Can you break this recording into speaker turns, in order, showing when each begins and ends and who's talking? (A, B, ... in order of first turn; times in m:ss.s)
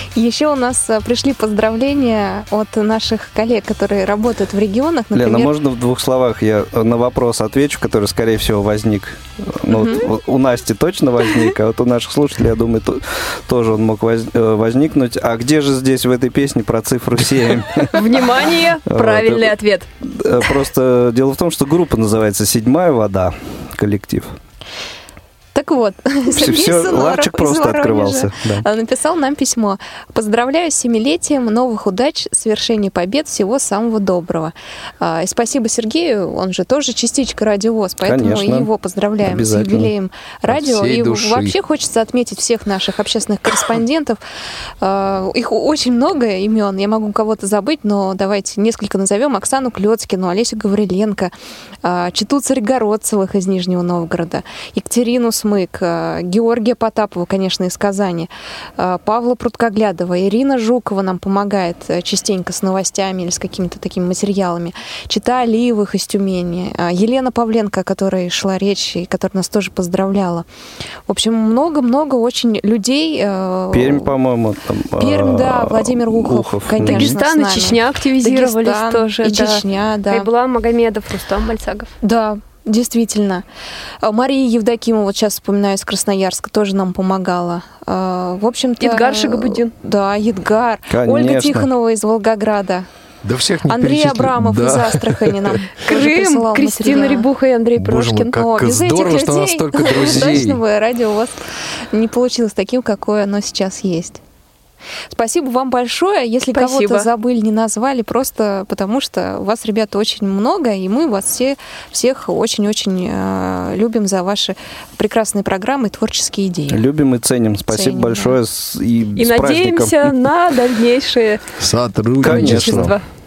0:00.2-0:05.5 A
0:05.1-0:17.9 B
0:17.9-0:19.9 C
0:18.9-0:24.4 B
0:25.5-0:44.2 A
0:26.3-0:28.6 B
0:38.0-0:38.7 B
0:39.2-0:39.9 B
0:40.5-0:41.6 D
0:44.8-0:51.3 A
0:51.8-1:10.5 A
1:11.1-1:14.1 A
1:13.7-1:17.2 B
1:15.0-1:20.3 A
1:16.8-1:21.9 C
1:22.0-1:23.4 A
1:24.0-1:32.9 A
1:28.8-1:29.7 C
1:30.9-1:31.7 B
1:33.2-1:35.6 D
1:33.6-1:37.3 A
1:35.9-1:38.4 C
1:37.8-1:40.6 D
1:38.4-1:44.2 A
1:40.0-1:40.4 C
1:45.1-1:56.8 A
1:46.4-1:47.1 C
1:56.7-2:00.1 B
1:57.7-1:58.4 A
1:59.2-2:01.4 C
2:01.6-2:03.0 D
2:02.2-2:03.0 C
2:02.2-2:03.0 B